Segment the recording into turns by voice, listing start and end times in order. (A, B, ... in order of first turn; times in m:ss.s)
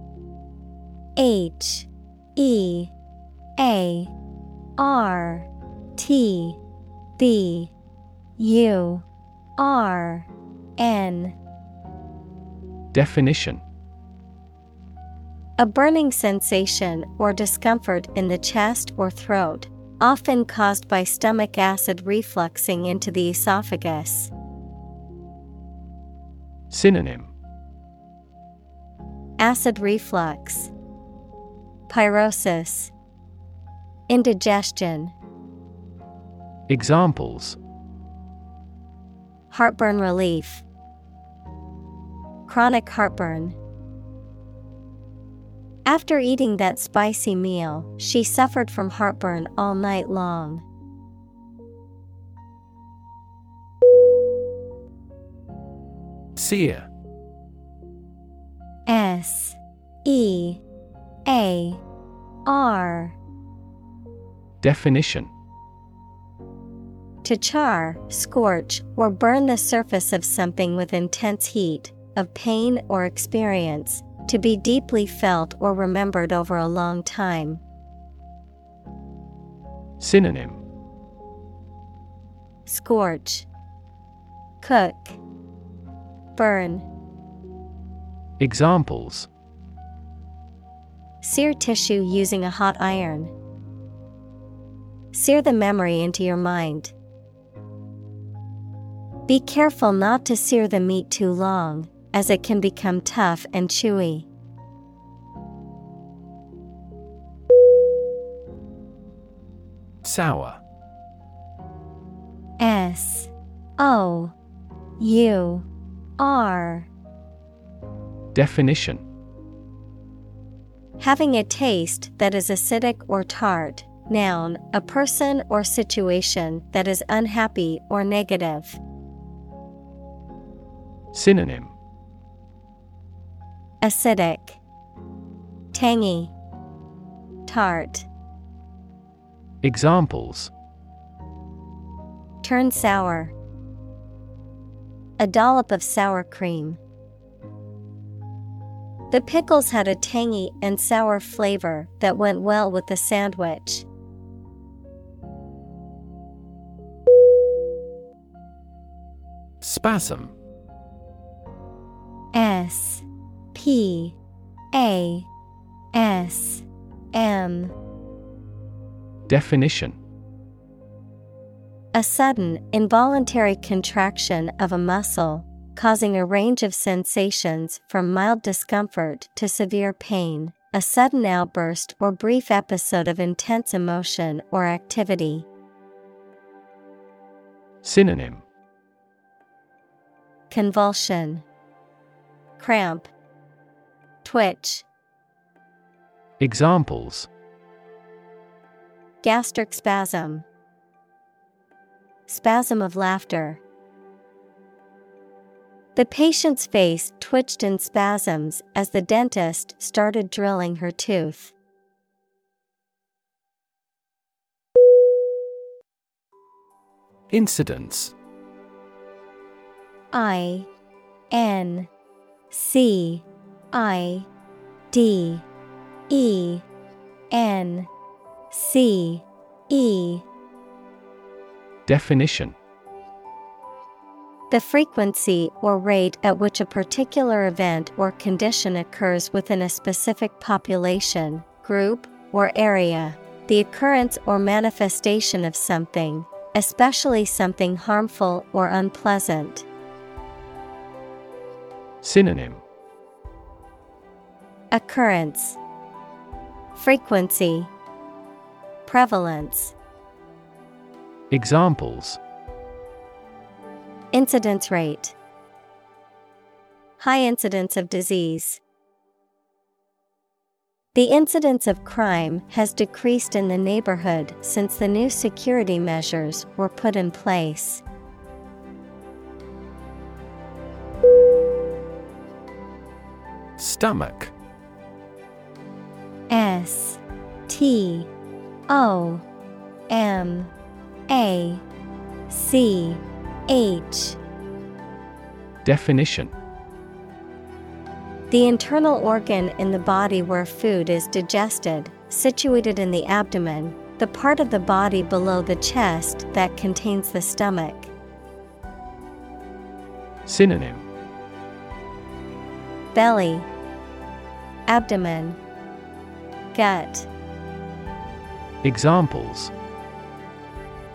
0:01.2-0:02.9 A
0:03.6-0:04.1 A
0:04.8-0:06.6 A
0:07.2-0:07.7 A
0:08.4-0:09.0 A
0:09.6-0:11.4 A
0:12.9-0:13.6 B
0:15.6-0:24.3 A
0:26.7-0:27.3 B
0:29.4-0:30.7 A
0:31.9-0:32.9 A
0:34.1-0:35.1 A
0:36.7-0:37.6 B
0:39.5-0:40.6 A
0:42.5-0:43.6 A
0:45.9-0:50.6 A
0:56.4-0:56.9 B
0:58.9-1:00.6 A
1:01.3-1:01.8 A
1:02.4-1:03.2 A
1:04.6-1:05.3 B
1:07.2-1:17.6 A
1:20.0-1:20.6 B
1:22.7-1:23.5 A
1:24.6-1:25.2 A
1:26.4-1:26.9 A
1:28.4-1:29.3 B
1:31.2-1:33.3 A
1:35.1-1:36.9 A
1:39.3-1:44.3 A
1:50.0-1:50.6 B
1:52.6-1:54.4 A
1:55.0-1:55.7 A
1:56.2-1:56.9 A
1:58.3-1:59.0 B
2:01.0-2:08.8 A
2:11.1-2:11.8 B
2:13.8-2:14.6 A
2:15.7-2:16.3 A
2:17.5-2:18.1 A
2:19.6-2:20.5 B
2:22.4-2:23.4 A
2:25.2-2:26.8 A
2:29.1-2:33.9 A
2:39.6-2:40.4 B
2:42.3-2:44.2 A
2:44.7-2:45.3 A
2:45.9-2:47.7 A
2:49.3-2:50.0 B
2:51.9-3:05.5 A
3:07.8-3:08.4 B
3:10.5-3:11.4 A
3:12.6-3:13.1 A
3:14.2-3:14.9 A
3:16.4-3:17.3 B
3:19.2-3:20.5 A
3:22.3-3:23.6 A
3:26.0-3:31.5 A
3:37.3-3:38.1 B
3:40.1-3:40.7 A
3:41.3-3:41.9 A
3:42.5-3:44.3 A
3:44.9-3:45.5 A
3:46.1-3:46.6 A
3:47.3-3:47.9 A
3:48.5-3:50.2 A
3:51.9-3:52.6 B
3:54.5-4:09.7 A
4:12.0-4:12.6 B
4:14.7-4:15.6 A
4:16.7-4:17.7 A
4:18.9-4:19.8 A
4:21.3-4:22.2 B
4:24.1-4:25.2 A
4:27.0-4:28.6 A
4:30.9-4:37.8 A
4:43.6-4:44.3 B
4:46.3-4:48.1 A
4:48.7-4:49.2 A
4:49.9-4:50.5 A
4:51.1-4:51.6 A
4:52.3-4:54.2 A
4:55.6-4:56.3 B
4:58.3-5:07.9 A
5:10.3-5:10.9 B
5:12.9-5:13.5 A
5:14.7-5:15.4 A
5:16.5-5:17.1 A
5:18.6-5:19.5 B